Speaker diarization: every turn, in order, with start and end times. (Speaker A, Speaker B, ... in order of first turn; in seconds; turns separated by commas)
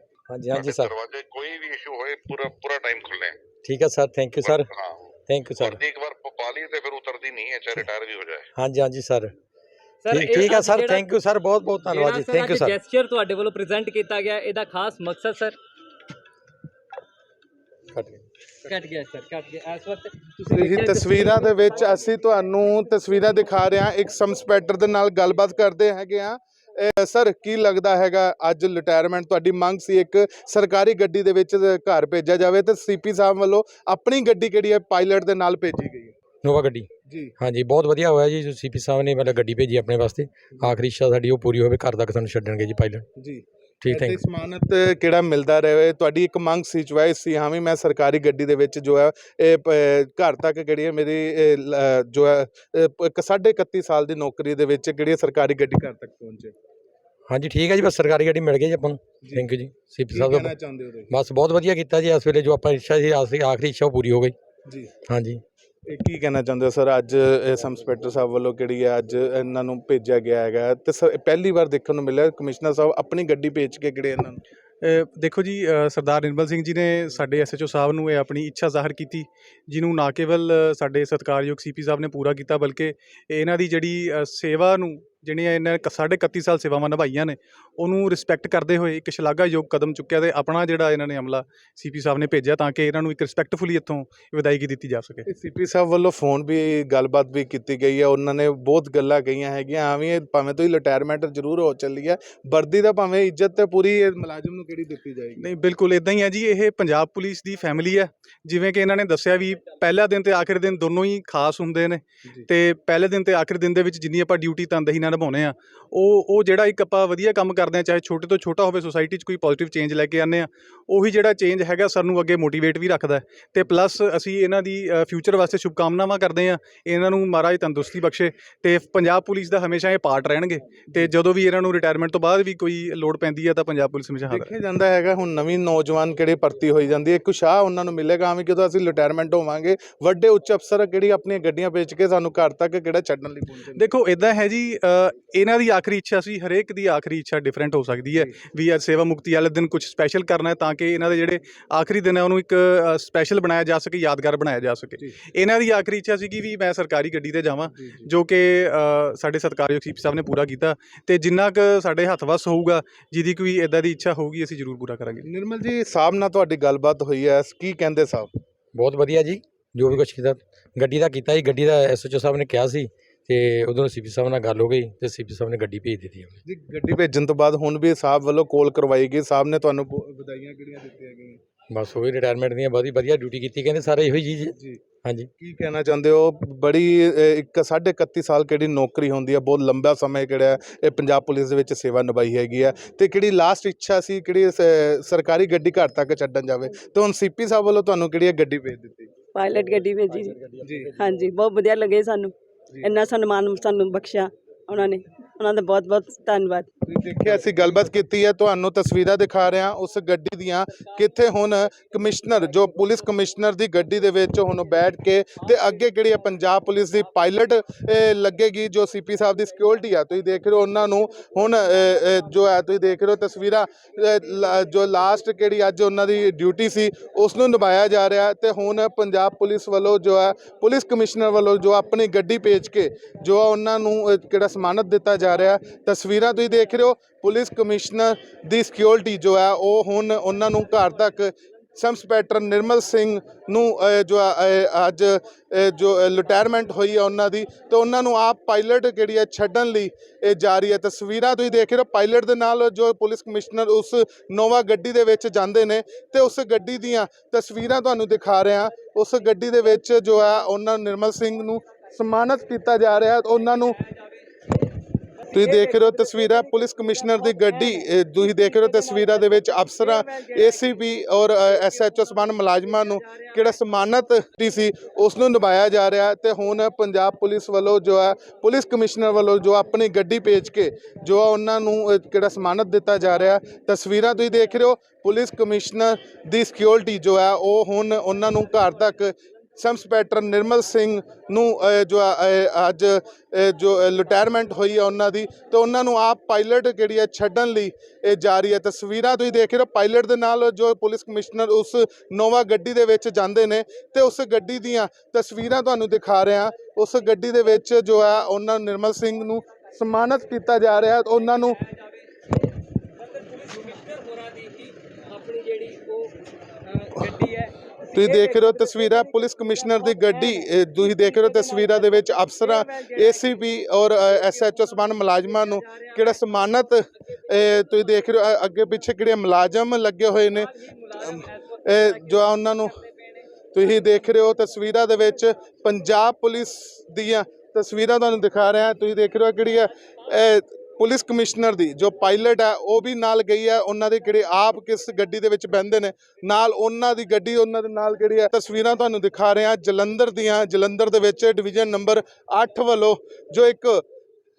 Speaker A: 0.3-0.9, Speaker B: 0.5-3.4, Speaker A: 3.6-4.7, Speaker B: 4.4-8.4, Speaker A: 5.3-5.8, Speaker A: 8.5-9.3, Speaker C: 10.0-11.1, Speaker A: 10.1-12.8, Speaker C: 11.8-15.6, Speaker A: 17.9-18.2, Speaker C: 18.6-21.9, Speaker D: 20.5-36.1, Speaker A: 36.4-43.1, Speaker D: 37.1-37.3, Speaker D: 43.2-56.5, Speaker A: 43.8-44.2, Speaker A: 57.3-60.5, Speaker D: 60.1-61.1, Speaker A: 61.1-64.3, Speaker D: 64.7-64.9, Speaker A: 65.1-65.4, Speaker D: 65.8-74.4, Speaker E: 74.8-95.3, Speaker D: 95.3-105.5, Speaker E: 105.4-134.5, Speaker D: 134.3-143.9, Speaker E: 143.7-165.3, Speaker D: 157.8-158.1, Speaker D: 165.2-168.3, Speaker A: 168.7-176.4, Speaker D: 176.4-181.4, Speaker A: 181.7-185.3, Speaker D: 184.6-184.8, Speaker D: 185.4-199.1, Speaker F: 199.3-206.7, Speaker D: 200.6-200.9, Speaker D: 206.8-263.8, Speaker D: 265.3-311.6, Speaker C: 313.0-316.1, Speaker C: 316.6-317.5, Speaker D: 317.9-332.8, Speaker D: 333.5-353.8